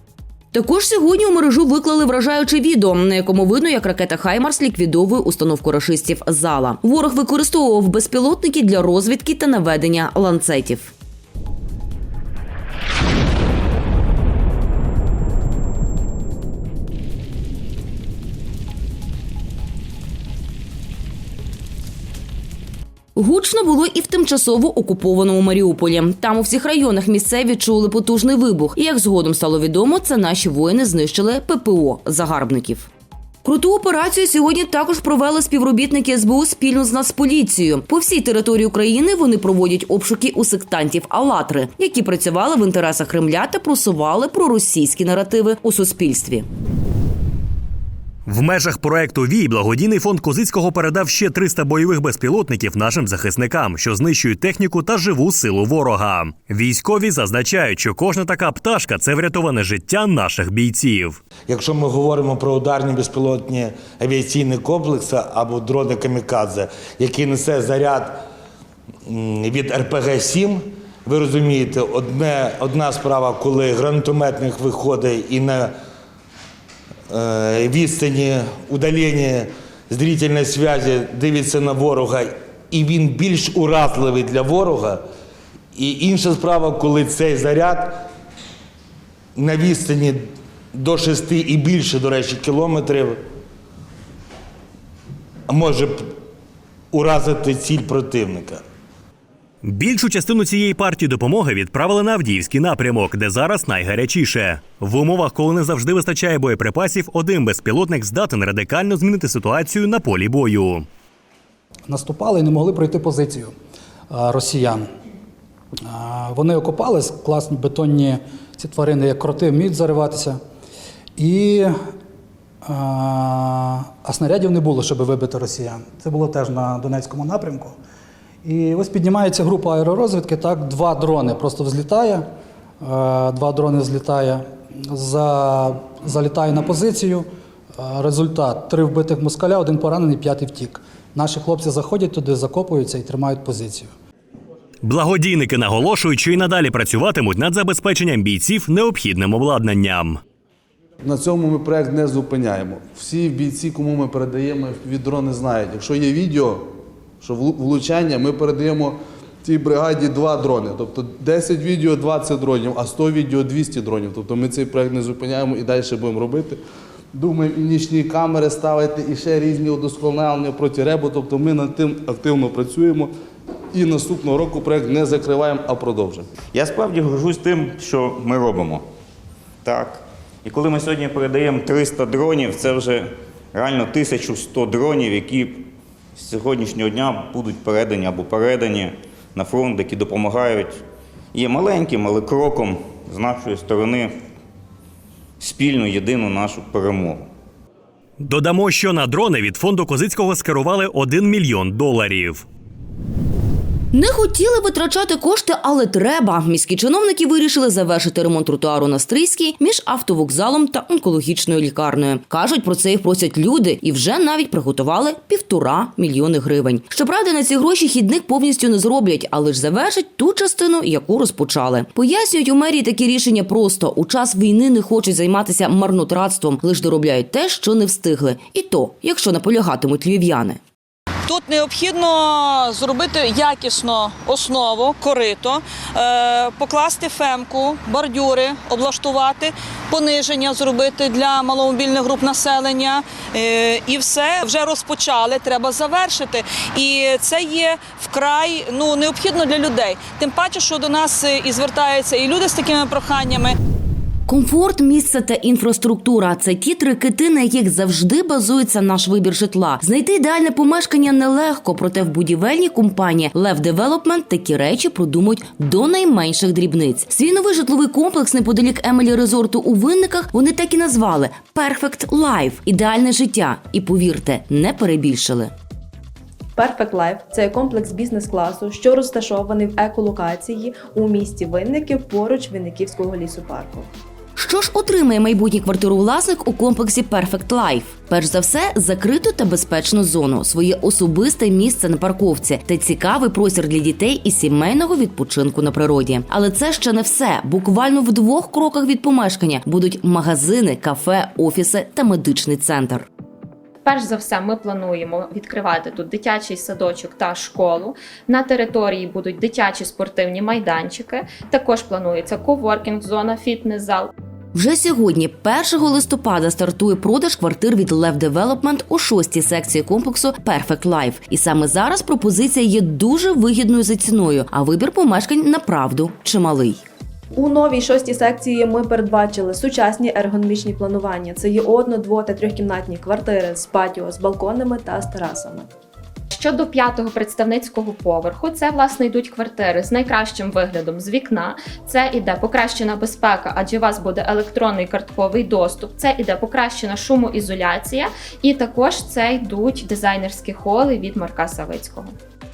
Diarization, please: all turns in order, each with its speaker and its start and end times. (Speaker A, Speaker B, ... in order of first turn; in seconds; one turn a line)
Speaker A: 0.5-10.9
Speaker A: 23.1-32.9
Speaker A: 33.4-46.5
Speaker B: 48.2-61.2
Speaker C: 61.5-68.2
Speaker C: 69.0-75.7
Speaker C: 77.1-85.0
Speaker C: 85.7-88.0
Speaker C: 89.3-90.2
Speaker C: 90.7-93.2
Speaker C: 95.5-96.0
Speaker C: 96.9-98.6
Speaker B: 99.6-110.8
Speaker D: 111.9-113.5
Speaker D: 114.1-114.8
Speaker D: 115.9-120.4
Speaker D: 121.2-121.7
Speaker D: 122.6-127.7
Speaker D: 128.4-132.2
Speaker D: 132.8-137.2
Speaker D: 137.8-143.9
Speaker B: 144.8-150.2
Speaker E: 151.0-156.6
Speaker E: 157.2-166.6
Speaker E: 167.1-173.1
Speaker E: 173.7-176.3
Speaker F: 176.5-178.8
Speaker F: 179.6-190.8
Speaker F: 191.3-194.2
Speaker F: 195.4-197.3
Speaker B: 198.2-202.4
Speaker A: 203.9-230.6
Speaker G: 231.3-253.6
Speaker A: 254.3-275.5
Speaker H: 276.5-283.9
Speaker A: 284.4-303.1
Speaker I: 303.8-314.1
Speaker A: 314.5-326.8
Speaker H: 327.3-335.7
Speaker I: 336.3-352.1